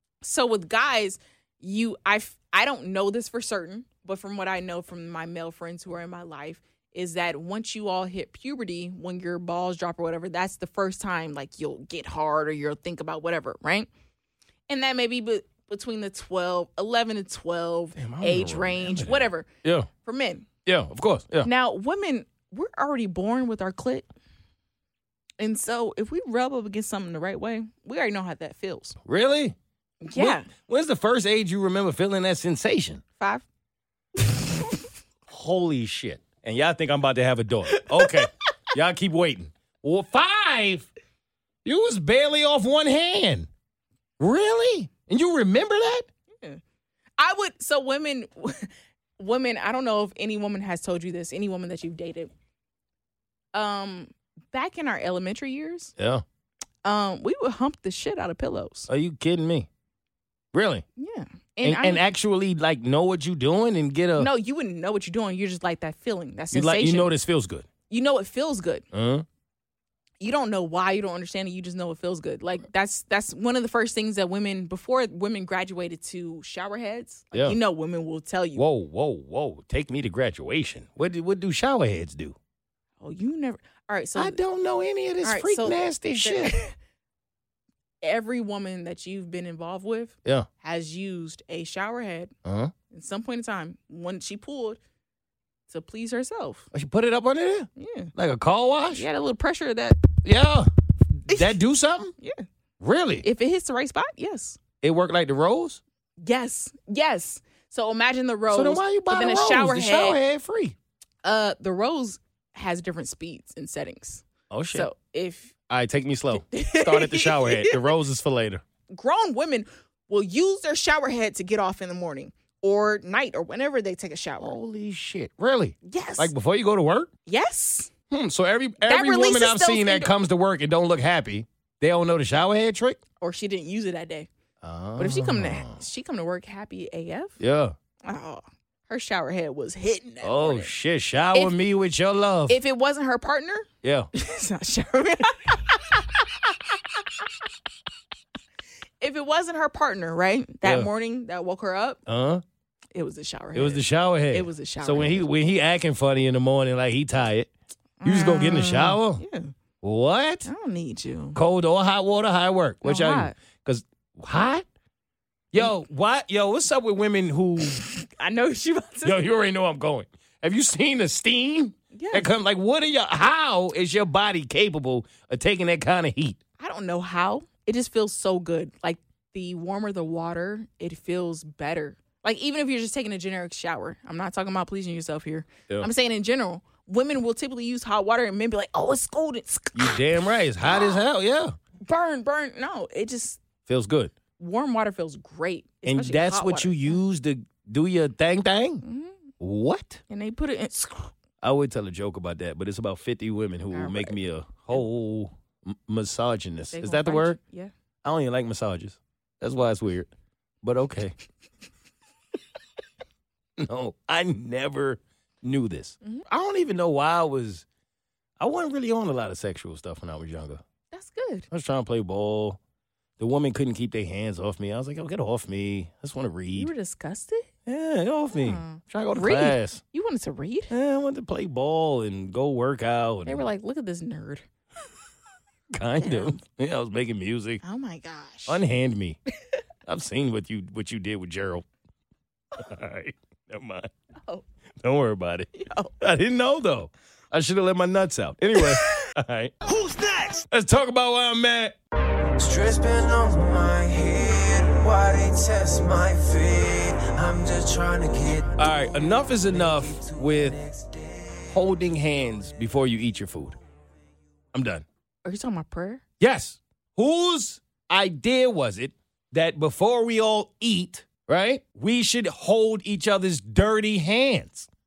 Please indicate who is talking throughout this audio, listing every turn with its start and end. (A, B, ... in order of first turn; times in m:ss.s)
0:00.2-0:13.9 A
0:14.7-0:19.5 A
0:18.0-0:19.9 B
0:20.0-0:20.5 A
0:20.6-0:21.5 B
0:21.4-0:24.1 A
0:25.4-0:29.0 A
0:29.0-0:29.6 B
0:30.0-0:30.5 A
0:30.2-0:33.0 B
0:33.2-0:33.4 A
0:35.3-0:40.9 B
0:37.7-0:38.3 A
0:41.6-0:43.5 B
0:44.2-0:46.1 B
0:47.2-0:52.3 A
0:53.5-0:55.9 A
0:56.0-0:56.2 B
0:56.8-0:58.9 A
0:58.9-0:59.7 B
1:00.5-1:00.8 B
1:01.0-1:02.0 A
1:01.6-1:04.3 B
1:04.2-1:07.1 A
1:06.5-1:07.7 B
1:07.9-1:08.8 A
1:08.9-1:09.3 B
1:10.2-1:18.6 A
1:17.3-1:17.6 B
1:18.6-1:22.4 B
1:23.0-1:24.4 A
1:24.2-1:26.6 B
1:25.2-1:26.7 A
1:28.0-1:32.3 A
1:32.4-1:32.7 B
1:32.9-1:34.8 A
1:35.7-1:36.7 A
1:36.7-1:39.0 B
1:37.8-1:38.1 A
1:38.9-1:40.0 A
1:40.2-1:40.7 B
1:41.3-1:42.1 B
1:41.3-1:41.6 A
1:42.2-1:42.4 A
1:42.8-1:43.2 B
1:43.2-1:44.6 A
1:44.8-1:45.8 B
1:46.2-1:50.2 A
1:48.5-1:50.8 B
1:51.2-1:55.5 A
1:54.5-1:54.9 B
1:55.7-1:58.6 B
1:56.5-1:57.9 A
1:58.9-2:04.6 A
2:04.4-2:07.1 B
2:05.8-2:06.3 A
2:07.3-2:07.9 A
2:08.1-2:13.0 B
2:08.8-2:10.1 A
2:13.2-2:14.3 A
2:14.6-2:15.8 B
2:15.0-2:17.4 A
2:17.4-2:17.8 B
2:18.0-2:20.7 A
2:20.2-2:22.6 B
2:22.5-2:26.8 A
2:23.8-2:24.1 B
2:29.0-2:32.0 A
2:30.6-2:30.9 B
2:32.1-2:32.4 B
2:32.9-2:35.3 A
2:33.5-2:37.5 B
2:38.0-2:39.5 A
2:38.0-2:39.2 B
2:39.8-2:40.5 B
2:40.4-2:41.4 A
2:41.4-2:44.7 B
2:42.8-2:43.4 A
2:45.5-2:47.9 B
2:47.8-2:49.2 A
2:49.0-2:56.4 B
2:51.9-2:52.3 A
2:56.6-3:10.0 A
3:09.7-3:11.6 B
3:10.7-3:11.0 A
3:11.8-3:13.4 A
3:13.7-3:14.1 B
3:14.4-3:17.0 A
3:15.8-3:18.8 B
3:18.8-3:19.2 A
3:19.4-3:20.0 B
3:20.1-3:21.1 A
3:21.4-3:27.4 B
3:23.7-3:24.2 A
3:26.7-3:27.7 A
3:28.0-3:30.1 B
3:30.6-3:31.1 B
3:33.6-3:37.6 B
3:38.4-3:40.6 B
3:40.9-3:41.5 A
3:41.5-3:42.6 B
3:43.2-3:46.7 B
3:46.6-3:47.5 A
3:47.7-3:49.8 B
3:48.4-3:50.7 A
3:50.7-3:53.4 B
3:53.3-3:54.4 A
3:55.7-3:57.6 B
3:56.0-3:56.4 A
3:57.6-3:58.6 A
3:58.5-3:59.2 B
3:59.9-4:01.7 B
4:02.6-4:03.9 B
4:04.8-4:09.5 B
4:05.6-4:06.0 A
4:09.6-4:10.5 C
4:10.5-4:11.8 B
4:12.4-4:21.4 C
4:18.6-4:20.6 B
4:21.5-4:23.6 B
4:24.5-4:24.8 B
4:25.2-4:26.0 A
4:26.2-4:34.7 B